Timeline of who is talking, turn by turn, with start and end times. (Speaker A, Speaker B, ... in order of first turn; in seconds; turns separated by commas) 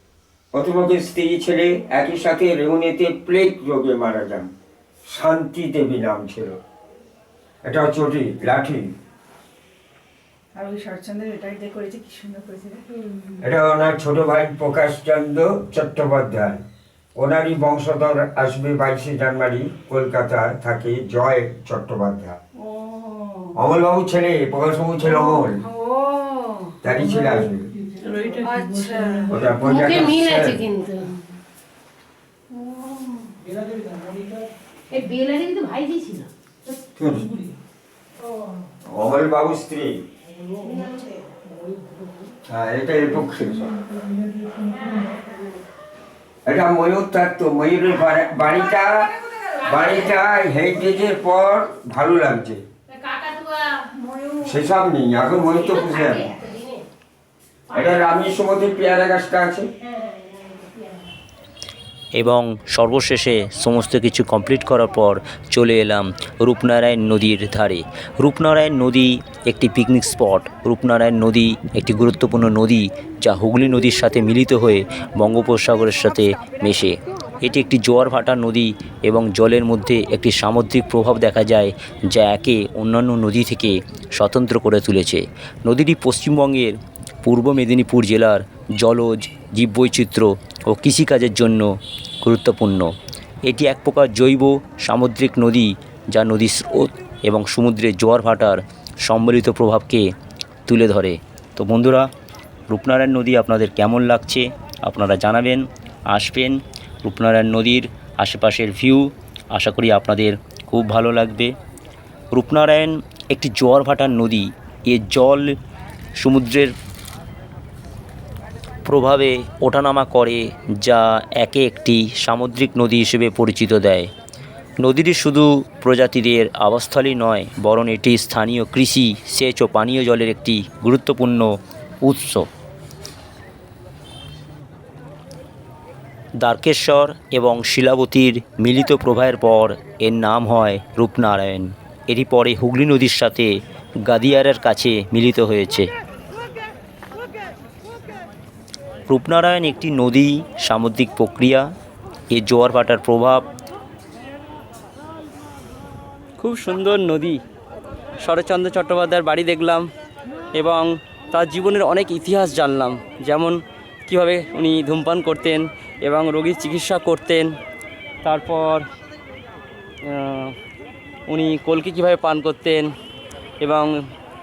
Speaker A: 0.5-4.5, Speaker A: 5.1-6.6, Speaker A: 7.6-8.9, Speaker B: 10.6-13.4, Speaker A: 13.4-16.6, Speaker A: 17.2-22.4, Speaker B: 22.6-23.5, Speaker A: 23.5-25.7, Speaker B: 25.2-26.8, Speaker A: 26.8-27.7, Speaker B: 28.0-29.4, Speaker C: 28.2-29.0, Speaker A: 29.3-30.7, Speaker D: 29.7-31.1, Speaker B: 32.5-33.3, Speaker D: 35.0-36.3, Speaker A: 37.0-37.3, Speaker A: 38.8-40.0, Speaker B: 40.6-40.9, Speaker A: 42.5-43.8, Speaker B: 44.5-45.2, Speaker A: 46.5-52.6, Speaker D: 53.3-53.6, Speaker B: 53.8-54.4, Speaker A: 54.4-56.4, Speaker A: 57.7-59.7, Speaker B: 60.1-60.9, Speaker E: 62.1-86.7, Speaker E: 87.2-91.7, Speaker E: 92.2-92.9, Speaker E: 93.5-100.1, Speaker E: 100.7-102.1, Speaker E: 102.7-111.5, Speaker E: 112.3-115.5, Speaker E: 116.2-116.7, Speaker E: 118.9-124.1, Speaker E: 124.8-131.5, Speaker E: 132.0-132.5, Speaker E: 136.4-143.5, Speaker E: 144.1-145.9, Speaker E: 149.1-151.6, Speaker E: 152.3-153.5, Speaker C: 156.4-157.4, Speaker C: 158.2-159.9, Speaker C: 160.5-167.5, Speaker C: 168.2-168.9, Speaker C: 170.0-170.5, Speaker C: 171.3-172.9, Speaker C: 173.6-173.9